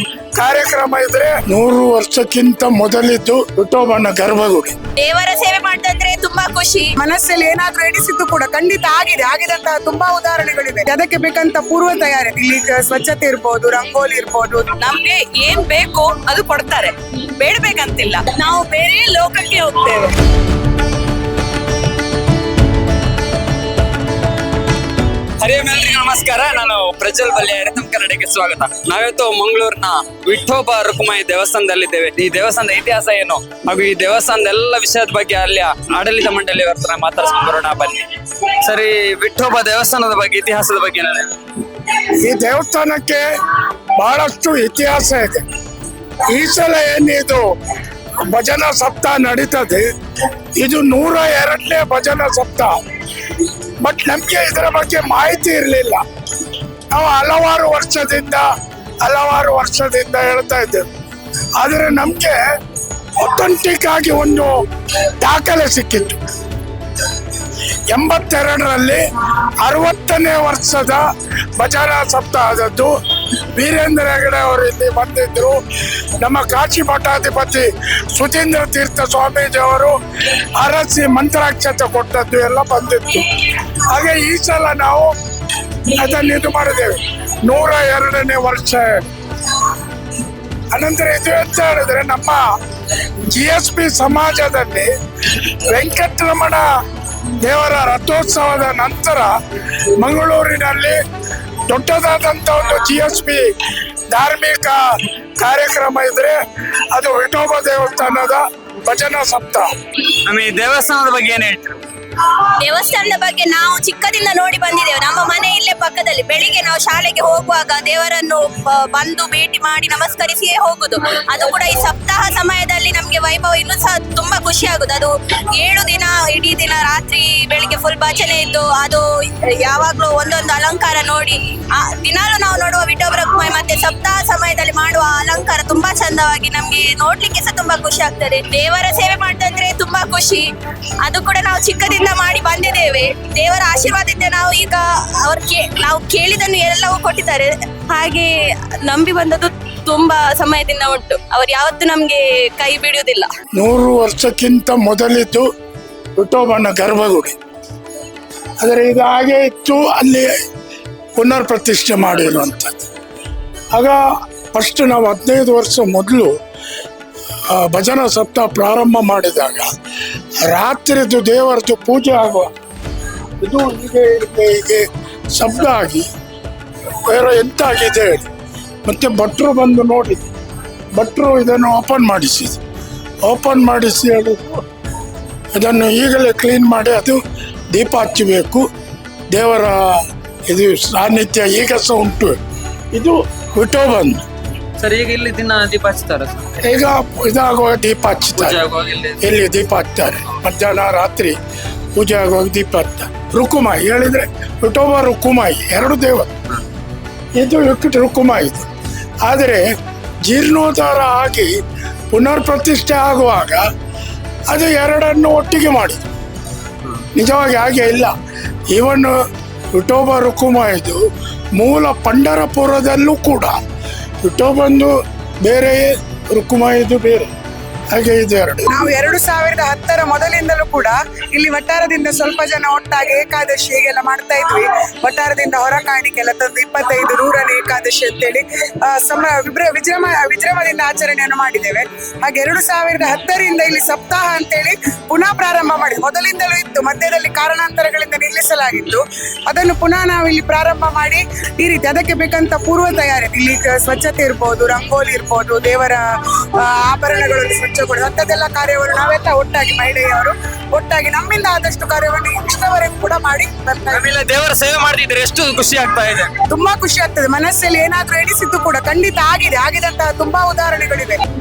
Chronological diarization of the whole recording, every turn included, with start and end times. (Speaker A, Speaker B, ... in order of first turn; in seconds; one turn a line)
Speaker A: 0.3-4.8
Speaker B: 5.0-6.9
Speaker C: 7.0-14.7
Speaker B: 14.8-20.2
Speaker D: 25.4-41.4
Speaker A: 42.2-43.2
Speaker A: 44.0-45.4
Speaker A: 46.3-47.4
Speaker A: 48.3-49.9
Speaker A: 50.6-52.7
Speaker A: 53.3-56.0
Speaker A: 56.9-58.5
Speaker A: 59.0-60.9
Speaker A: 61.6-62.4
Speaker A: 63.2-64.6
Speaker A: 65.2-66.2
Speaker A: 67.9-69.0
Speaker A: 69.6-71.0
Speaker A: 71.6-72.9
Speaker A: 73.5-75.6
Speaker A: 76.2-80.0
Speaker A: 80.6-85.1
Speaker A: 85.9-89.0
Speaker A: 90.7-92.4
Speaker A: 93.3-94.9
Speaker A: 95.7-96.7
Speaker A: 97.4-99.3
Speaker A: 100.0-101.0
Speaker A: 101.7-103.5
Speaker A: 104.1-104.8
Speaker A: 105.4-106.4
Speaker A: 106.9-109.7
Speaker D: 110.3-111.8
Speaker B: 112.3-129.1
Speaker B: 129.6-140.4
Speaker B: 141.0-148.3
Speaker B: 148.8-153.3
Speaker A: 153.5-155.4
Speaker A: 156.2-157.4
Speaker A: 158.6-160.3
Speaker A: 161.2-162.9
Speaker A: 163.7-164.0
Speaker A: 164.5-166.3
Speaker A: 167.5-169.7
Speaker A: 170.4-172.5
Speaker A: 173.4-176.1
Speaker A: 177.1-178.2
Speaker A: 178.8-180.2
Speaker A: 180.9-182.6
Speaker A: 183.2-184.6
Speaker A: 185.6-187.2
Speaker A: 187.7-188.7
Speaker A: 189.3-192.4
Speaker A: 192.9-194.2
Speaker D: 194.8-196.6
Speaker A: 196.6-198.6
Speaker D: 198.3-199.3
Speaker A: 199.2-201.3
Speaker A: 201.9-206.3
Speaker A: 207.4-208.7
Speaker A: 209.2-209.7
Speaker A: 210.2-211.5
Speaker A: 212.1-213.7
Speaker A: 214.5-216.1
Speaker A: 217.1-218.1
Speaker A: 218.7-219.2
Speaker A: 219.7-221.0
Speaker A: 221.6-223.6
Speaker A: 224.2-224.9
Speaker A: 225.4-227.3
Speaker A: 227.9-228.7
Speaker C: 228.7-256.0
Speaker C: 256.6-264.0
Speaker D: 263.9-266.3
Speaker C: 266.5-271.2